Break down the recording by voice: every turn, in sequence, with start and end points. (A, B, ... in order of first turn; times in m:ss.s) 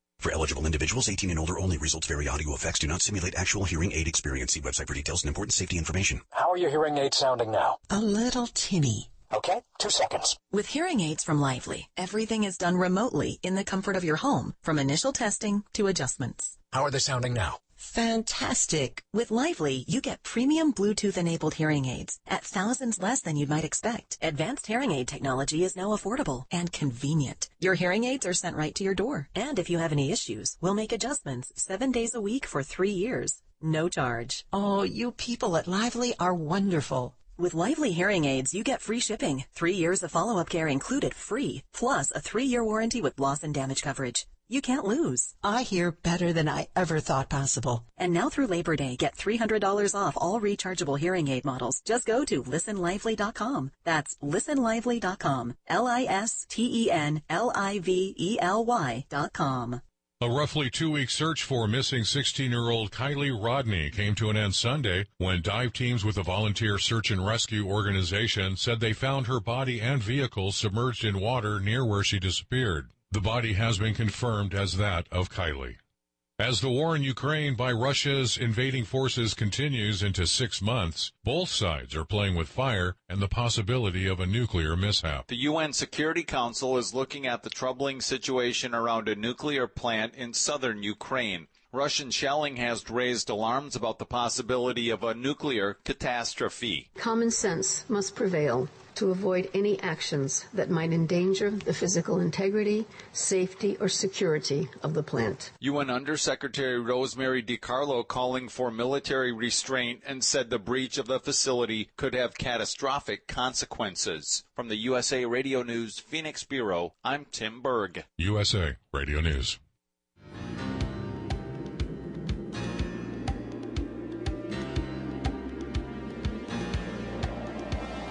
0:00.2-0:06.2 A
0:06.4-0:07.8 B
0:07.9-0:09.1 C
0:09.4-0:10.3 B
0:10.5-0:16.6 C
0:16.8-0:17.5 B
0:17.8-0:34.5 C
0:34.5-0:37.1 D
0:37.1-0:45.4 C
0:45.4-0:47.8 D
0:47.8-0:59.8 C
1:00.2-1:15.8 E
1:16.4-1:25.3 E
1:25.3-1:36.9 F
1:37.0-1:45.5 G
1:45.6-1:58.1 F
1:58.2-1:59.6 E